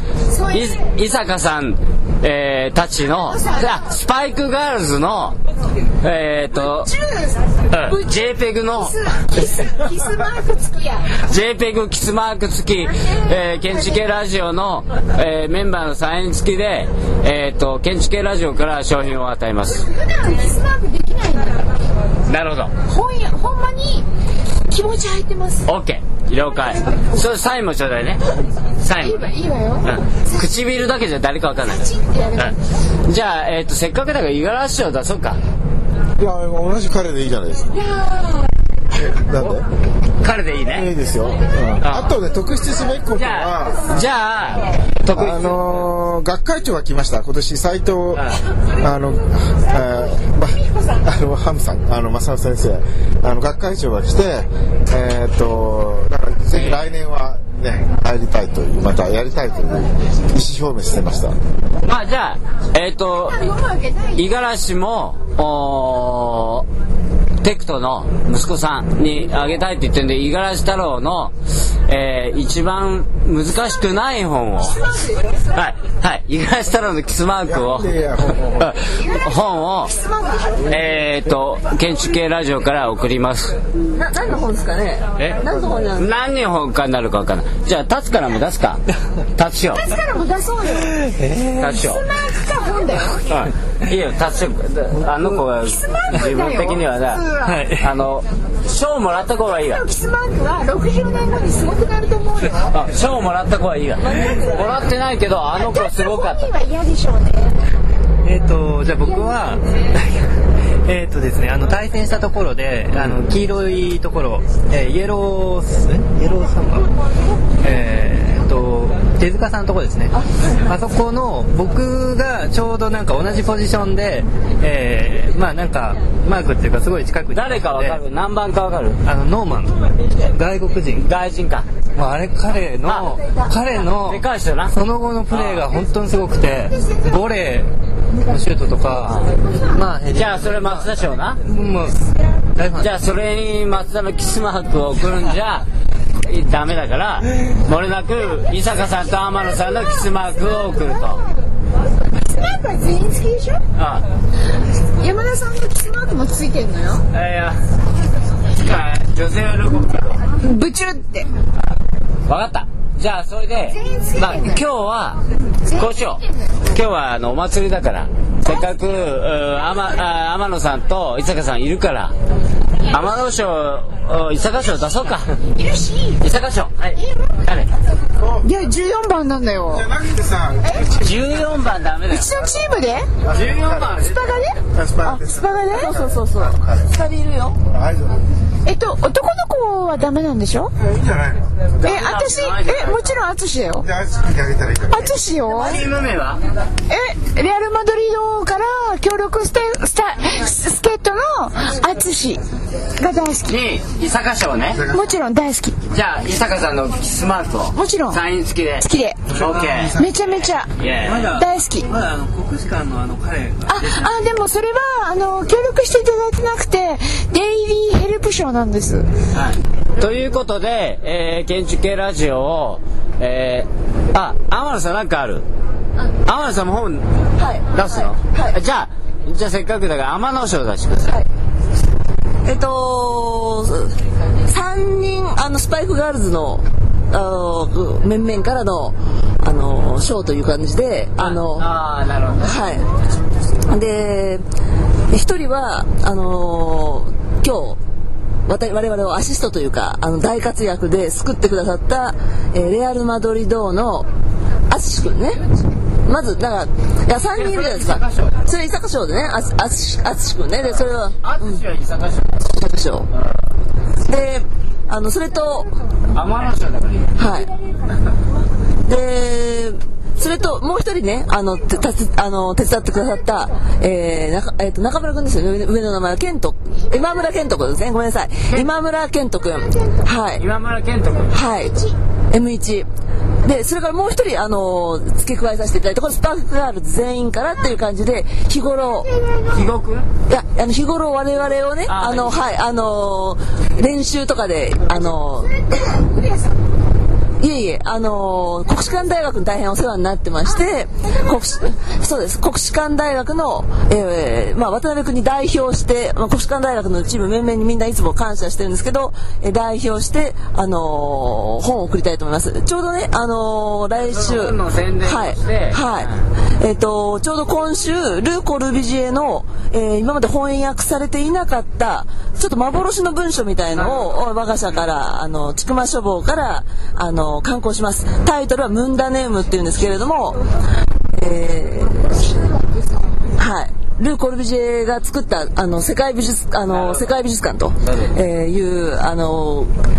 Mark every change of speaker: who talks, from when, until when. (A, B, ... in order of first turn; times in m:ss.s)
0:00.3-0:00.9 A
0:00.5-0:05.4 B
0:03.2-0:03.9 A
0:06.0-0:06.9 B
0:06.5-0:11.2 A
0:07.7-0:09.0 B
0:11.2-0:19.8 B
0:12.8-0:14.0 A
0:19.6-0:21.7 A
0:22.3-0:22.7 B
0:22.8-0:24.0 A
0:24.6-0:25.7 A
0:25.7-0:28.2 B
0:26.7-0:27.0 A
0:28.8-0:29.2 B
0:29.0-0:30.4 A
0:29.8-0:32.5 B
0:31.7-0:32.6 A
0:33.1-0:35.4 B
0:36.2-0:37.7 C
0:37.7-0:38.5 A
0:38.9-0:39.6 C
0:40.2-0:40.9 B
0:40.7-0:44.0 C
0:41.8-0:42.1 B
0:43.1-0:45.9 B
0:45.1-0:48.2 C
0:48.1-0:48.4 B
0:48.8-1:01.3 C
0:56.5-0:56.9 B
1:01.8-1:03.5 B
1:03.2-1:04.3 A
1:04.1-1:06.6 B
1:07.4-1:11.3 B
1:11.9-1:14.8 B
1:14.6-1:15.5 A
1:15.5-1:17.9 B
1:17.4-1:18.7 C
1:18.6-1:19.9 B
1:18.9-1:20.7 A
1:20.6-1:23.6 B
1:23.9-1:26.1 D
1:25.4-1:25.8 C
1:26.0-1:28.8 B
1:29.4-1:29.8 B
1:29.7-1:31.0 A
1:30.9-1:31.8 E
1:31.6-1:32.0 B
1:31.6-1:33.3 A
1:33.3-1:37.2 B
1:35.0-1:35.4 E
1:35.6-1:37.7 A
1:37.4-1:37.9 E
1:37.8-1:39.8 B
1:39.5-1:42.8 A
1:42.7-1:46.5 B
1:44.0-1:44.8 D
1:45.5-1:47.6 A
1:48.2-1:50.3 E
1:49.0-1:49.6 A
1:50.8-1:56.9 E
1:57.6-2:08.0 E
2:07.3-2:09.0 B
2:09.0-2:11.1 E
2:11.0-2:11.7 B
2:12.0-2:17.7 E
2:12.8-2:13.1 B
2:14.0-2:14.7 B
2:15.3-2:15.7 B
2:18.2-2:20.9 E
2:19.5-2:19.8 A
2:20.1-2:21.4 B
2:21.4-2:22.0 E
2:22.5-2:22.9 E
2:22.8-2:25.6 B
2:26.2-2:31.2 B
2:28.2-2:31.4 A
2:32.0-2:33.6 A
2:33.8-2:34.0 B
2:35.0-2:37.0 A
2:37.1-2:37.6 B
2:38.6-2:40.2 B
2:40.4-2:41.3 A
2:42.3-2:45.2 B
2:43.7-2:44.6 A
2:45.6-2:46.6 A
2:45.7-2:52.1 B
2:52.9-2:55.3 B
2:55.4-2:56.2 A
2:56.2-2:57.7 B
2:56.9-2:57.4 A
2:58.2-2:58.5 C
2:58.4-2:59.9 A
2:59.7-3:01.7 C
3:00.6-3:00.9 A
3:01.0-3:02.4 B
3:02.1-3:03.1 A
3:03.2-3:04.0 C
3:03.3-3:04.4 B
3:04.0-3:05.9 A
3:04.7-3:06.9 C
3:05.7-3:07.6 D
3:07.6-3:08.2 C
3:08.6-3:10.7 A
3:10.8-3:11.9 C
3:11.8-3:13.1 B
3:11.8-3:13.8 A
3:13.8-3:15.1 C
3:14.9-3:15.8 A
3:15.5-3:16.4 B
3:16.9-3:22.4 A
3:23.0-3:23.6 A
3:23.5-3:24.8 B
3:24.7-3:25.1 C
3:24.9-3:25.8 A
3:25.9-3:31.3 B
3:27.7-3:28.2 A
3:28.8-3:29.3 A
3:29.3-3:30.1 C
3:29.9-3:30.7 A
3:31.0-3:34.1 E
3:31.2-3:31.9 A
3:33.7-3:39.1 A
3:39.3-3:45.4 B
3:46.2-3:47.1 B
3:47.4-3:48.6 D
3:47.7-3:51.1 B
3:52.4-3:53.9 D
3:54.4-4:01.7 D
4:01.2-4:02.7 B
4:02.4-4:02.8 D
4:03.7-4:04.4 D
4:05.1-4:07.8 D
4:08.5-4:14.1 D
4:14.7-4:15.4 D
4:16.0-4:21.6 D
4:17.3-4:18.4 B
4:20.6-4:22.4 B
4:22.4-4:23.1 D
4:23.1-4:23.4 B
4:24.0-4:25.7 D
4:26.1-4:27.2 B
4:27.2-4:27.5 D
4:27.4-4:28.0 A
4:28.8-4:40.4 D
4:36.8-4:37.4 A
4:39.5-4:40.1 A
4:40.4-4:41.4 B
4:41.3-4:41.8 D
4:41.4-4:41.9 A
4:42.3-4:42.9 D
4:43.4-4:49.1 D
4:48.9-4:49.7 A
4:49.5-4:50.0 B
4:50.3-4:55.5 D
4:51.9-4:52.4 B
4:54.9-4:56.6 A
4:57.4-5:30.4 D
5:00.4-5:01.7 A
5:14.0-5:16.2 B
5:23.7-5:24.5 B
5:31.1-5:32.1 D
5:32.1-5:33.2 A
5:33.4-5:39.7 D
5:36.7-5:37.1 B
5:37.8-5:38.1 B